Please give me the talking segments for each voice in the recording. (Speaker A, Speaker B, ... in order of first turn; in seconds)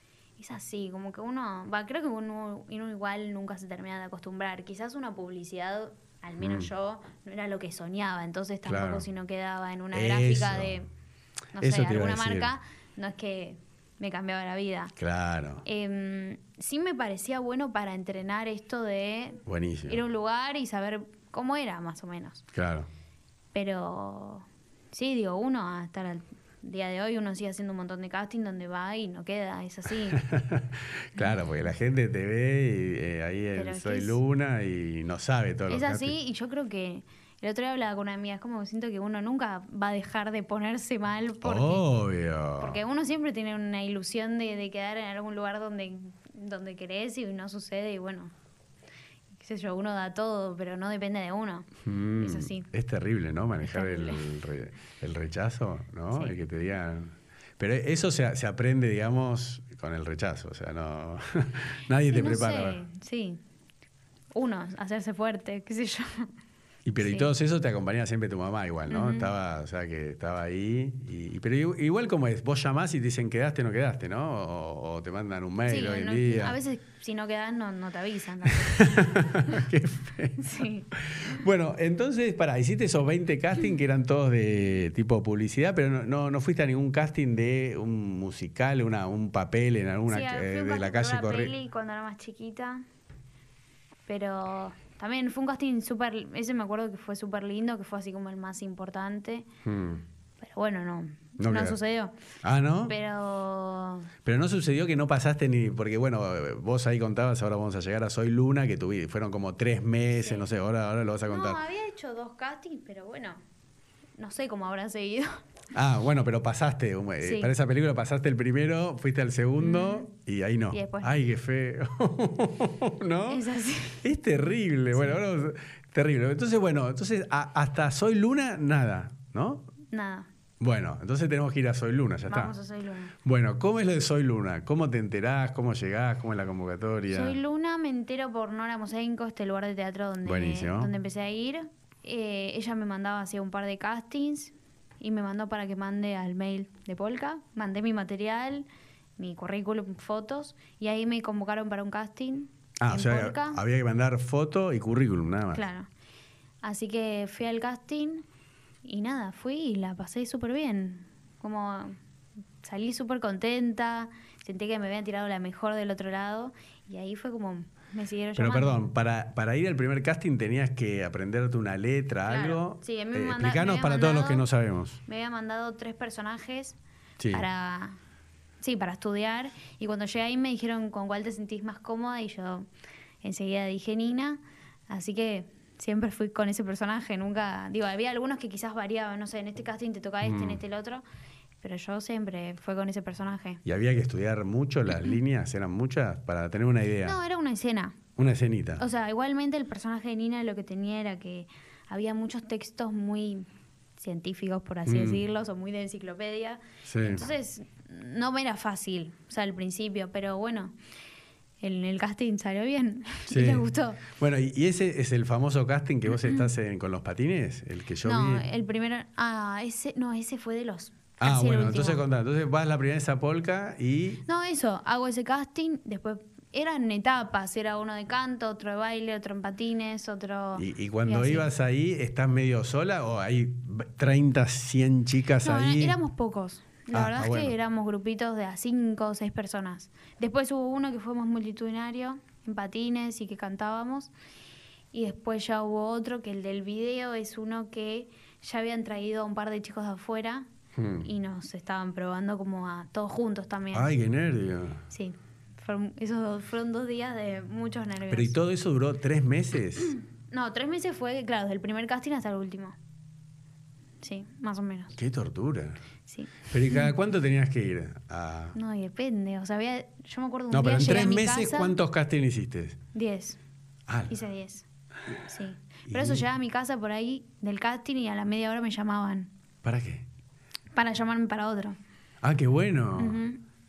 Speaker A: 0.4-10.9, 11.5-14.9, 15.6-22.4, 23.5-30.2, 31.1-31.4, 33.5-34.2, 35.7-41.9, 42.6-48.3, 49.4-52.7, 53.6-54.2, 56.1-56.4, 62.1-63.4, 64.3-66.3, 67.0-67.3, 68.9-69.3, 75.7-79.6, 80.4-81.4, 90.1-92.8, 94.1-99.5, 100.4-102.1, 102.9-104.1, 110.2-110.5, 111.2-113.4, 114.2-115.4, 117.2-117.5, 119.6-120.1, 120.7-121.1, 123.3-124.0, 129.9-130.3, 132.3-133.1, 137.1-148.7, 149.2-153.6, 155.5-155.9, 156.6-158.2, 158.8-162.0, 162.6-168.8, 172.3-174.4, 175.1-176.8, 177.3-178.0, 178.6-182.7, 183.2-191.0, 191.6-193.6, 197.0-198.0, 198.8-203.5, 204.0-210.7, 211.6-214.0, 216.1-216.5, 218.0-222.0, 224.2-231.5, 235.4-244.1, 244.9-250.5, 251.0-253.9, 254.9-258.3, 260.3-262.8, 264.0-264.9, 266.1-266.9, 268.5-271.7, 272.9-273.4, 274.1-274.6, 275.2-279.3, 280.7-281.8, 283.0-283.4
Speaker B: 6.4-6.7, 8.7-9.1, 9.9-10.8, 11.6-12.5, 15.0-15.6, 19.4-20.0, 22.5-22.9, 30.1-36.1, 41.4-42.8, 51.8-62.8, 66.8-76.6, 78.5-91.5, 99.6-100.0, 101.4-101.8, 102.4-102.9, 104.2-111.6, 115.7-123.4, 124.0-129.7, 130.6-132.5, 133.2-137.4, 140.2-140.9, 152.8-155.6, 168.3-175.0, 177.2-177.4, 190.2-190.6, 193.6-197.2, 198.2-198.8, 204.8-205.2, 206.8-207.2, 213.3-218.4, 221.2-224.2, 230.6-236.0, 236.9-237.5, 250.7-251.1, 253.7-254.8, 258.1-259.9, 264.9-265.8, 266.5-268.6, 270.5-272.8, 273.9-274.1, 275.9-276.2, 279.6-280.1, 282.2-283.2